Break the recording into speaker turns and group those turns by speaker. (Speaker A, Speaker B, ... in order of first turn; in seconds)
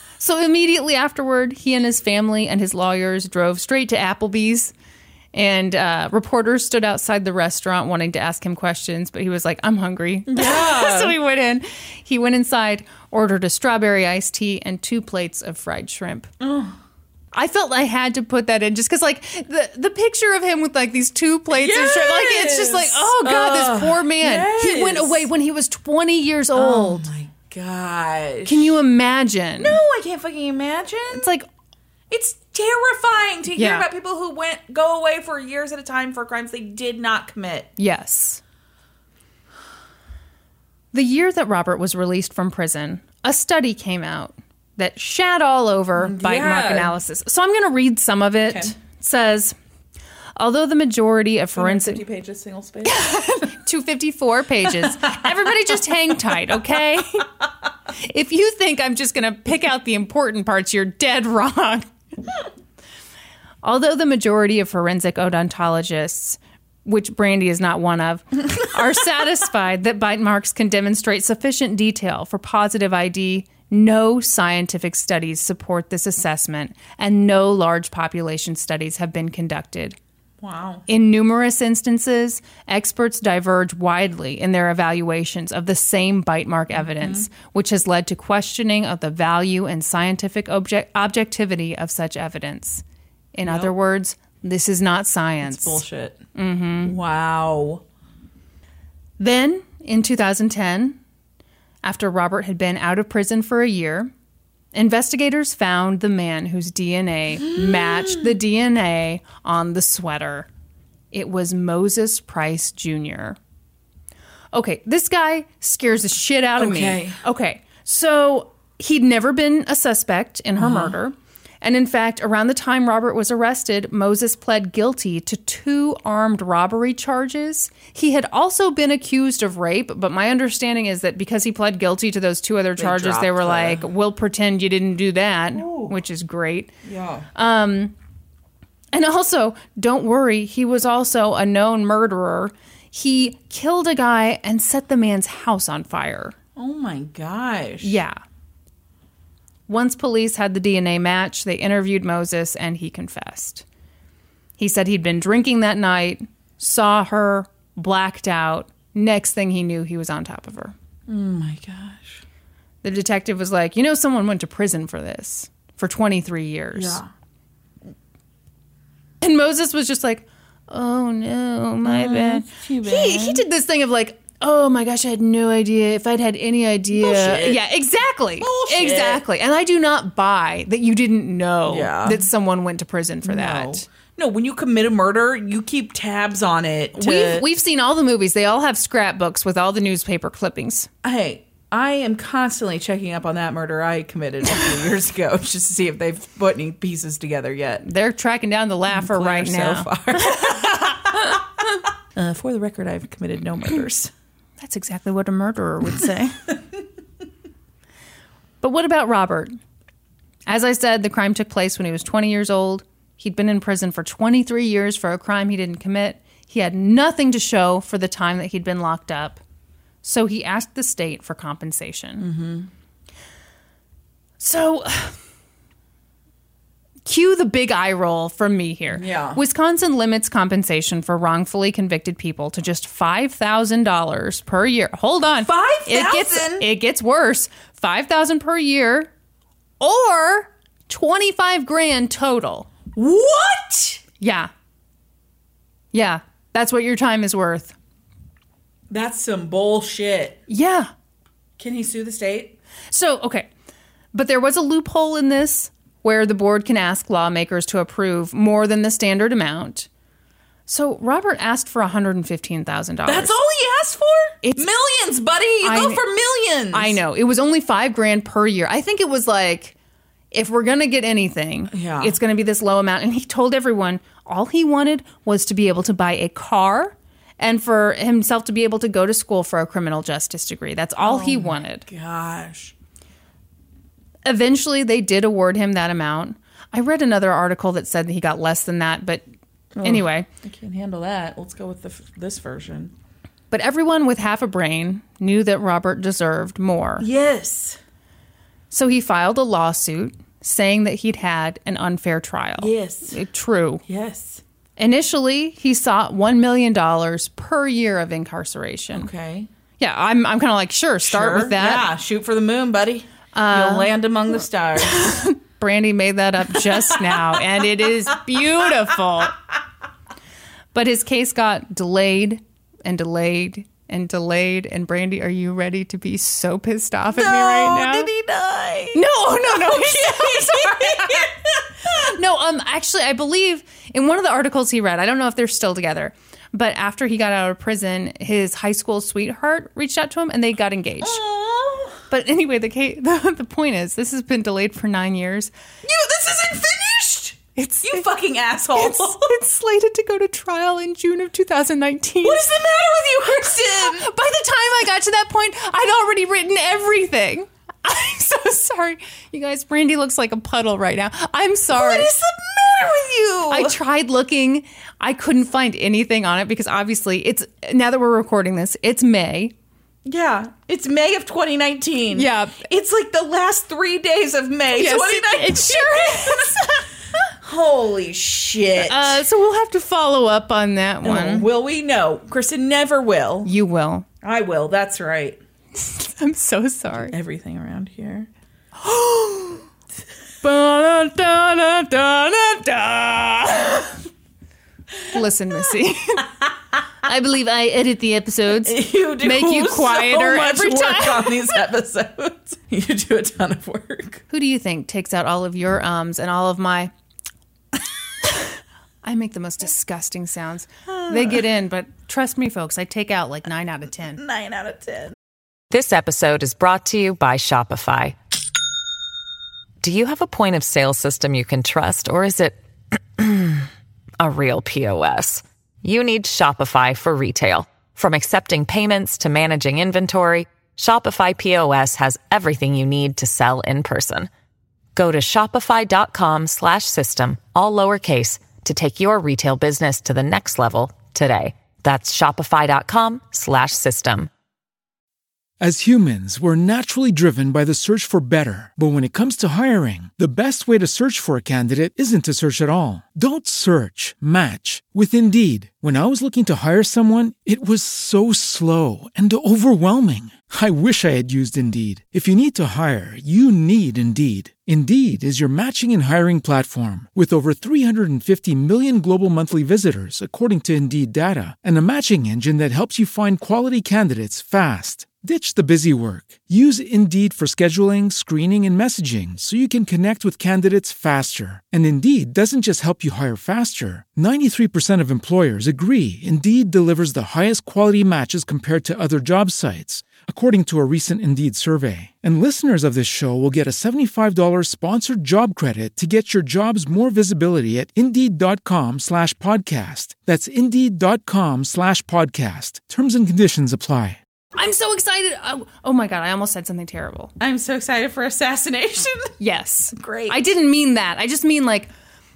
Speaker A: 0.2-4.7, 5.3-16.3, 17.3-27.1, 28.5-29.8, 31.1-31.5, 33.5-33.9, 37.8-38.4, 40.9-49.5, 50.4-52.0, 52.9-57.3, 58.0-61.9, 63.6-80.0, 80.9-92.8, 93.3-95.8, 96.3-96.9, 99.2-101.0, 101.8-104.1, 104.7-110.5, 111.1-113.4, 114.5-136.7, 137.3-137.9, 138.9-146.3, 147.8-148.2, 149.7-153.7, 154.6-160.7, 162.8-167.0, 169.2-183.9, 187.0-190.9, 197.8-201.1, 204.6-206.4, 208.6-209.6, 210.5-219.4, 220.0-222.3, 224.4-225.2, 227.1-239.1, 239.8-242.7, 244.2-244.5, 245.9-247.8, 250.5-250.9, 252.9-253.5, 254.1-259.9, 260.7-263.4, 264.4-264.7, 265.6-266.0, 266.7-269.8, 270.3-281.9, 284.2-289.2, 289.8-290.3, 293.5-297.1, 298.7-303.8, 304.8-309.1, 309.8-311.9, 313.3-313.9, 314.8-319.4, 320.7-328.1, 328.9-331.3, 331.9-341.2, 342.1-345.5, 347.6-348.1, 348.8-352.5, 353.4-362.1, 363.5-369.5, 372.1-372.6, 374.8-376.9, 378.8-381.5, 383.4-384.1, 385.8-387.2, 388.8-389.6, 390.4-394.0, 395.1-396.3, 397.0-401.5, 404.3-406.9, 409.0-414.2, 504.6-507.3, 509.4-511.9
Speaker B: 10.3-11.2, 16.4-16.8, 21.5-25.3, 26.5-28.8, 29.6-31.3, 32.1-37.7, 46.0-46.9, 48.5-48.7, 51.6-53.3, 54.8-55.5, 80.4-80.9, 86.7-87.3, 93.5-93.8, 95.4-96.3, 96.8-97.8, 107.4-108.3, 116.6-117.2, 120.6-121.0, 132.8-133.9, 135.5-136.0, 136.8-137.3, 146.6-148.0, 161.1-162.2, 166.8-167.1, 171.8-173.4, 176.9-177.7, 178.4-179.2, 181.7-182.3, 183.2-187.4, 191.0-197.9, 198.9-201.4, 202.2-204.1, 222.2-222.7, 228.9-229.4, 235.4-236.7, 242.9-244.0, 248.9-250.4, 251.6-252.6, 263.1-267.0, 271.7-272.2, 281.0-282.7, 289.7-292.9, 297.0-297.8, 302.6-303.2, 303.9-304.4, 308.9-309.5, 311.1-315.3, 316.6-317.4, 327.1-332.1, 341.0-342.0, 345.8-349.4, 352.2-354.1, 361.7-363.8, 370.1-376.8, 377.4-379.2, 381.0-383.5, 384.2-385.4, 387.0-388.3, 398.5-404.2, 410.9-411.4, 414.1-415.2, 507.4-509.3, 509.9-510.4
Speaker C: 415.7-418.2, 419.8-422.6, 423.1-423.7, 424.2-434.3, 434.9-444.3
Speaker D: 445.6-504.2